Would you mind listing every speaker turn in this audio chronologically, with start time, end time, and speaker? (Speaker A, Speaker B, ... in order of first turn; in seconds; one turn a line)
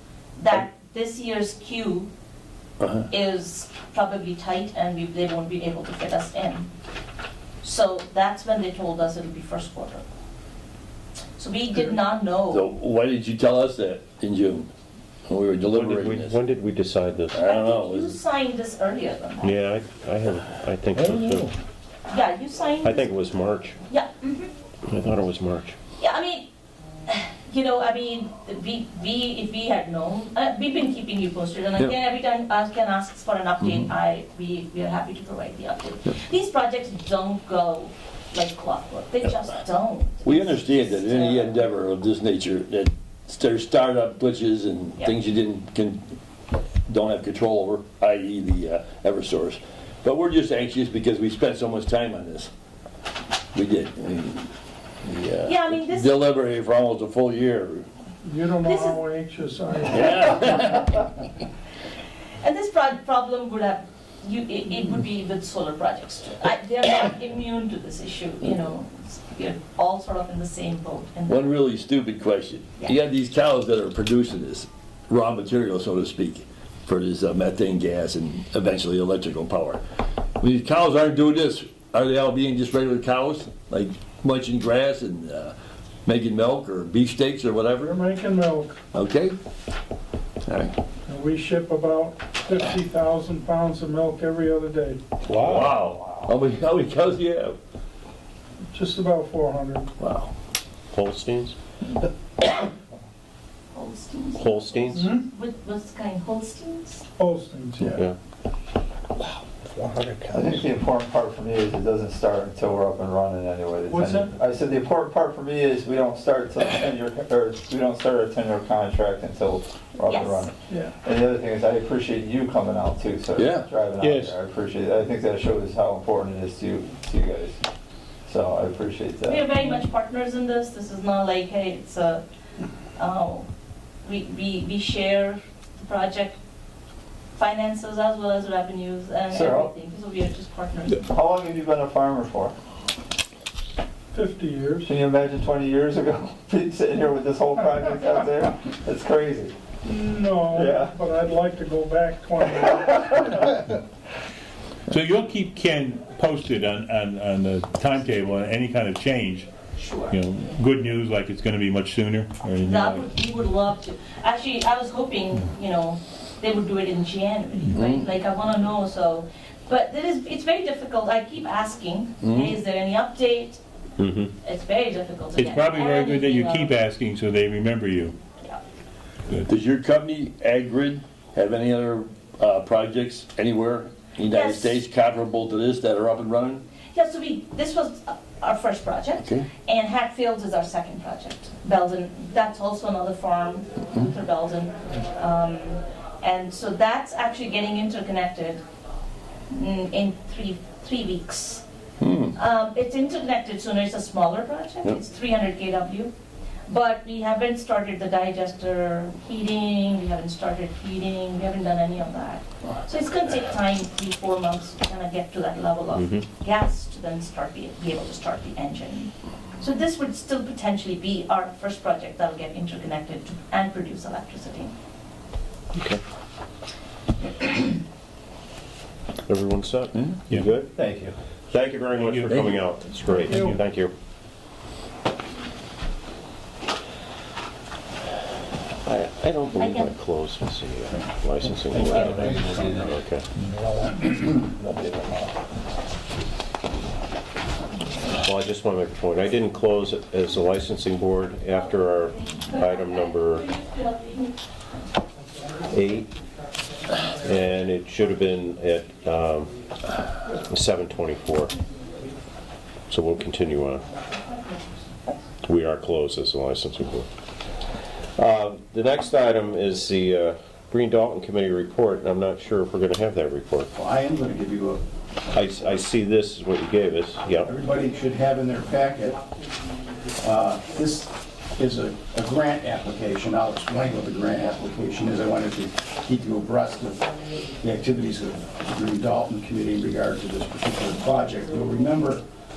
Speaker A: 0.4-2.1
Speaker B: 2.8-3.1
Speaker A: 3.1-6.7
Speaker A: 7.6-10.0
Speaker A: 11.4-12.6
Speaker B: 12.5-14.7
Speaker B: 15.3-16.4
Speaker C: 15.7-17.4
Speaker B: 17.3-18.1
Speaker A: 17.4-19.5
Speaker C: 19.4-21.5
Speaker A: 22.1-23.1
Speaker C: 22.8-23.8
Speaker A: 23.9-24.5
Speaker C: 24.9-25.8
Speaker A: 26.0-26.4
Speaker A: 27.1-41.6
Speaker B: 33.6-33.9
Speaker B: 40.2-46.0
Speaker B: 46.9-52.5
Speaker B: 53.5-54.5
Speaker B: 55.0-57.9
Speaker A: 55.4-56.1
Speaker D: 58.2-60.3
Speaker A: 58.6-59.0
Speaker B: 59.9-61.0
Speaker A: 62.4-71.5
Speaker B: 71.3-79.8
Speaker B: 80.4-85.5
Speaker B: 86.0-88.0
Speaker D: 87.8-88.8
Speaker B: 88.9-89.3
Speaker B: 90.5-90.7
Speaker D: 91.1-95.0
Speaker E: 95.3-95.7
Speaker B: 95.3-97.5
Speaker D: 98.7-99.9
Speaker B: 100.0-100.3
Speaker C: 100.9-101.5
Speaker A: 103.7-107.0
Speaker C: 104.4-105.0
Speaker D: 104.9-105.2
Speaker D: 107.2-108.0
Speaker C: 107.9-108.2
Speaker F: 110.3-127.6
Speaker D: 113.9-114.3
Speaker A: 120.0-120.4
Speaker B: 123.3-123.7
Speaker E: 124.0-124.3
Speaker F: 128.3-129.4
Speaker A: 129.2-132.2
Speaker A: 133.0-133.5
Speaker A: 134.0-136.4
Speaker A: 137.3-141.0
Speaker F: 139.3-139.7
Speaker F: 141.1-142.5
Speaker D: 144.1-144.9
Speaker F: 144.8-149.5
Speaker D: 149.8-153.6
Speaker F: 150.5-151.0
Speaker E: 154.9-159.5
Speaker A: 159.7-160.2
Speaker E: 160.1-163.1
Speaker A: 162.6-173.6
Speaker B: 167.7-168.1
Speaker B: 172.2-172.6
Speaker C: 174.0-174.3
Speaker A: 174.4-176.7
Speaker E: 175.3-178.2
Speaker B: 179.4-186.6
Speaker A: 184.3-184.8
Speaker A: 186.9-198.6
Speaker B: 189.2-189.5
Speaker A: 199.5-201.6
Speaker B: 202.0-202.3
Speaker A: 202.3-206.1
Speaker A: 206.7-224.7
Speaker C: 215.9-216.2
Speaker C: 225.7-226.0
Speaker C: 229.3-230.7
Speaker B: 229.9-230.2
Speaker F: 230.7-231.1
Speaker C: 231.5-233.9
Speaker E: 231.9-232.5
Speaker B: 232.3-232.6
Speaker C: 238.8-243.2
Speaker A: 239.6-239.9
Speaker G: 241.7-242.8
Speaker G: 244.4-244.7
Speaker C: 248.2-253.5
Speaker A: 251.8-254.3
Speaker C: 255.7-256.1
Speaker C: 257.2-259.5
Speaker C: 260.5-261.5
Speaker C: 262.9-263.8
Speaker A: 264.3-264.6
Speaker C: 265.4-267.1
Speaker C: 268.1-273.7
Speaker G: 273.7-274.8
Speaker C: 275.3-277.5
Speaker G: 277.4-279.2
Speaker G: 280.2-292.2